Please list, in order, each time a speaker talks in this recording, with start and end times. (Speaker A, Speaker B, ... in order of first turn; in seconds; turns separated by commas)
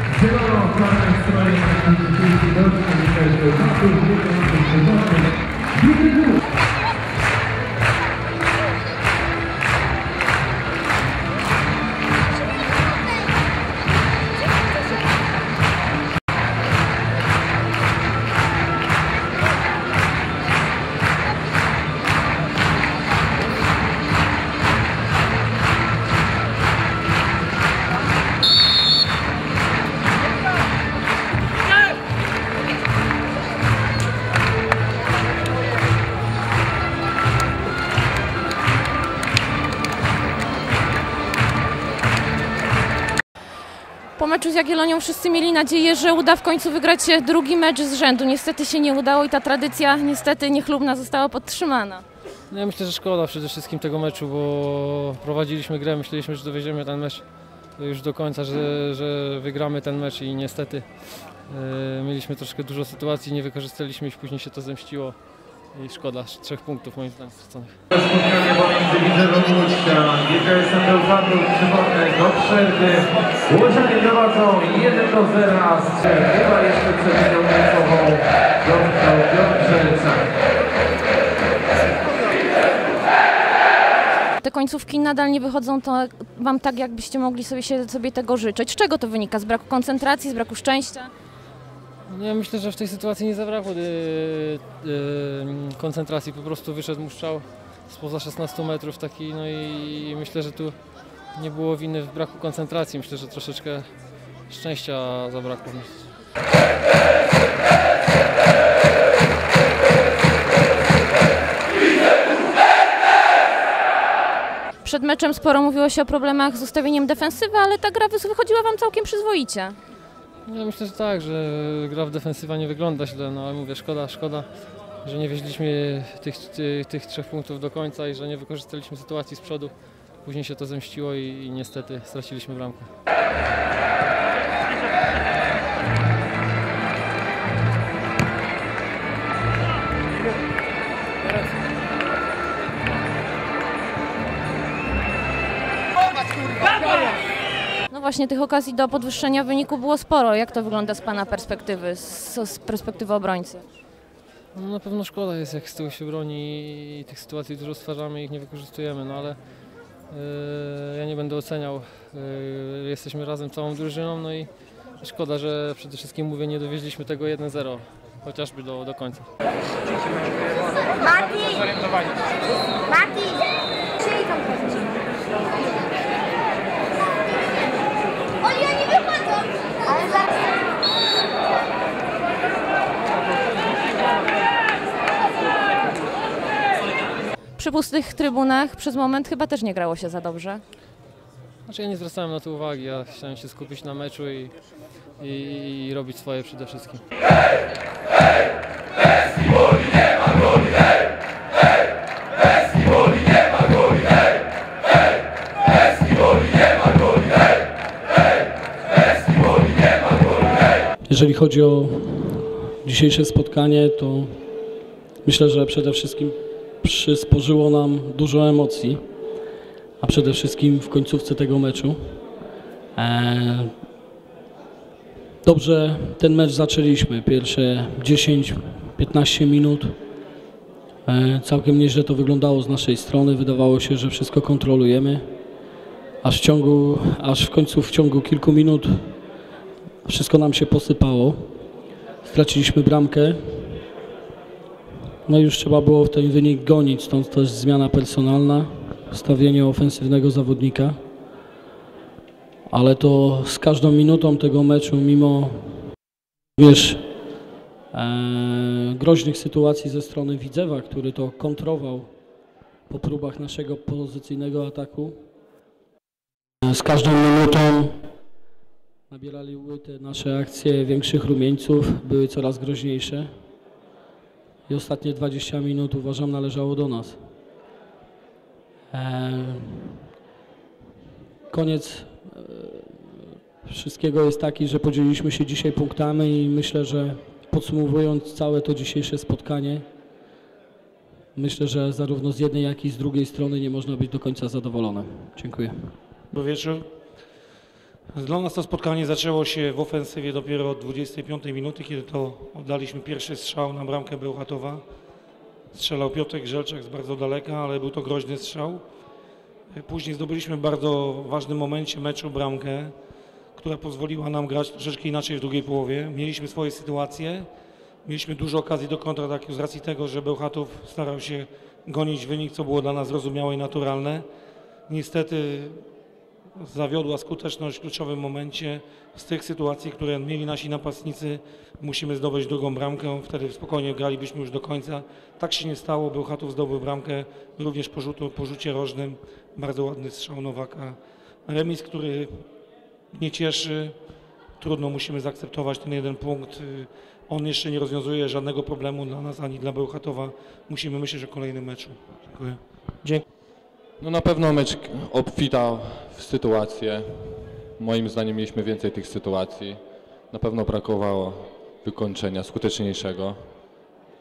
Speaker A: 0.3-4.7, Speaker B: 44.2-52.0, Speaker C: 52.5-65.2, Speaker C: 65.7-67.8, Speaker A: 67.9-80.2, Speaker B: 84.4-91.1, Speaker C: 92.1-100.8, Speaker C: 101.3-103.9, Speaker C: 104.5-106.1, Speaker B: 114.8-119.8, Speaker C: 120.5-124.5, Speaker C: 125.0-132.9, Speaker B: 147.9-153.6, Speaker C: 154.5-159.4, Speaker C: 160.1-169.3, Speaker B: 187.6-190.6, Speaker C: 191.7-194.6, Speaker C: 195.2-197.0, Speaker D: 211.1-214.4, Speaker D: 215.2-219.0, Speaker D: 220.0-222.2, Speaker D: 222.9-223.8, Speaker D: 225.4-230.0, Speaker D: 231.1-235.3, Speaker D: 236.2-239.2, Speaker D: 240.0-241.5, Speaker D: 242.2-243.8, Speaker D: 245.2-251.0, Speaker D: 252.7-255.9, Speaker D: 256.6-257.1, Speaker D: 257.9-262.1, Speaker D: 262.9-265.2, Speaker D: 266.6-268.0, Speaker D: 269.1-273.3, Speaker D: 274.7-277.2, Speaker D: 278.9-280.0, Speaker D: 281.5-289.8, Speaker D: 291.3-295.9, Speaker E: 296.3-296.9, Speaker E: 298.1-304.8, Speaker E: 305.7-308.8, Speaker E: 309.7-312.9, Speaker E: 313.6-317.5, Speaker E: 318.0-324.2, Speaker E: 324.9-325.8, Speaker E: 326.6-342.5, Speaker E: 343.1-343.9, Speaker E: 344.6-352.6, Speaker F: 354.0-359.8, Speaker F: 360.3-363.4